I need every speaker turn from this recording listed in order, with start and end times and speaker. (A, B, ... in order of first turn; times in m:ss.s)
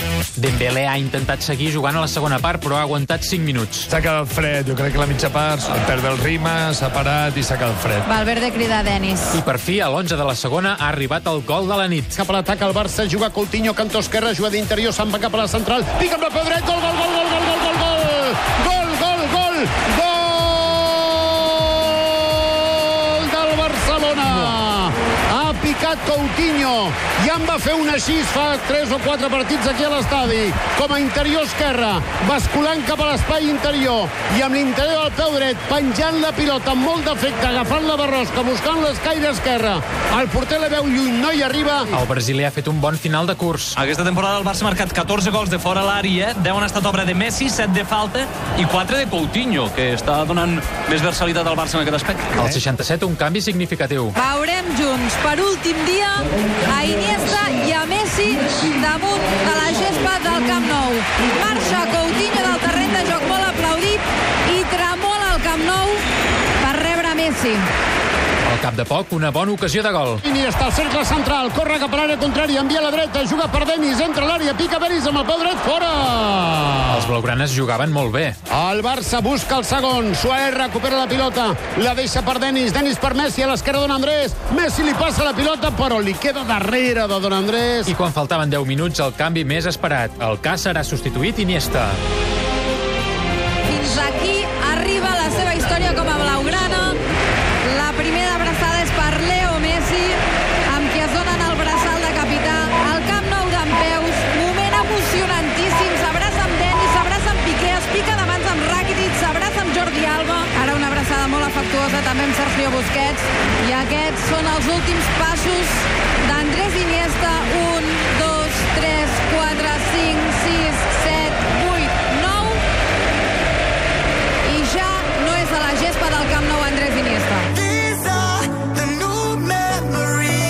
0:00.4-0:03.9 A
0:03.9-0:08.0 B
0:05.1-0:05.6 C
0:08.1-0:09.4 D
0:09.3-0:12.1 A
0:12.2-0:41.9 E
0:41.9-0:43.8 A
0:43.8-0:52.5 C
0:52.4-0:54.1 A
0:54.2-1:06.0 D
1:06.6-1:07.7 D
1:08.5-1:10.2 A
1:10.2-1:17.1 E
1:16.9-1:18.4 A
1:18.5-1:27.9 E
1:27.9-1:32.0 A
1:33.7-1:37.0 D
1:37.6-2:02.6 D
2:04.4-2:07.5 D